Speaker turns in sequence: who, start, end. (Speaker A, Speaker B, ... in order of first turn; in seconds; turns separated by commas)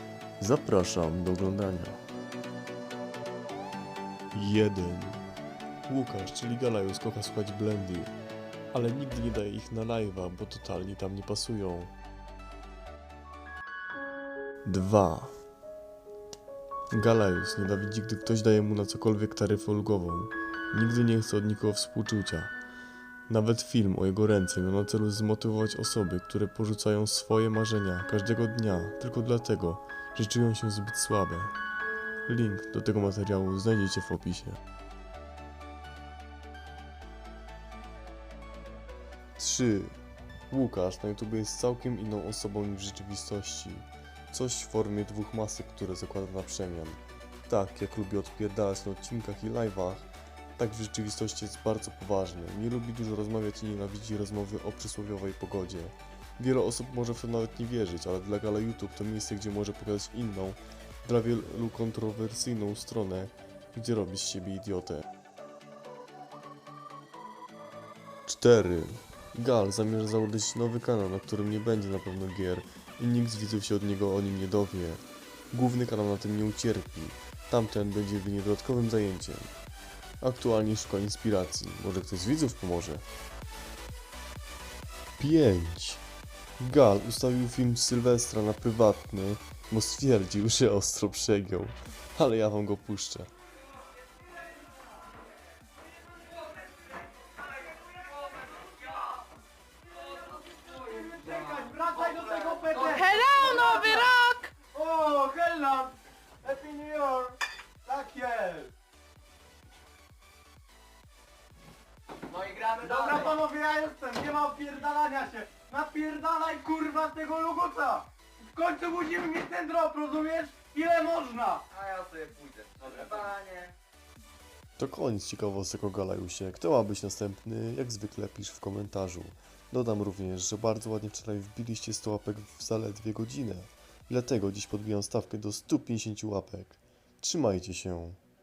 Speaker A: 0.4-2.0, Speaker A: 4.3-5.2, Speaker A: 5.9-8.1, Speaker A: 8.7-11.9, Speaker A: 14.6-15.3, Speaker A: 16.9-22.5, Speaker A: 23.3-31.6, Speaker A: 32.3-34.6, Speaker A: 39.4-40.0, Speaker A: 40.5-65.1, Speaker A: 68.2-79.5, Speaker A: 80.2-83.1, Speaker A: 85.2-86.0, Speaker A: 86.6-93.3, Speaker B: 100.3-108.7, Speaker C: 112.3-112.9, Speaker B: 112.6-121.8, Speaker C: 121.8-123.7, Speaker A: 124.8-138.2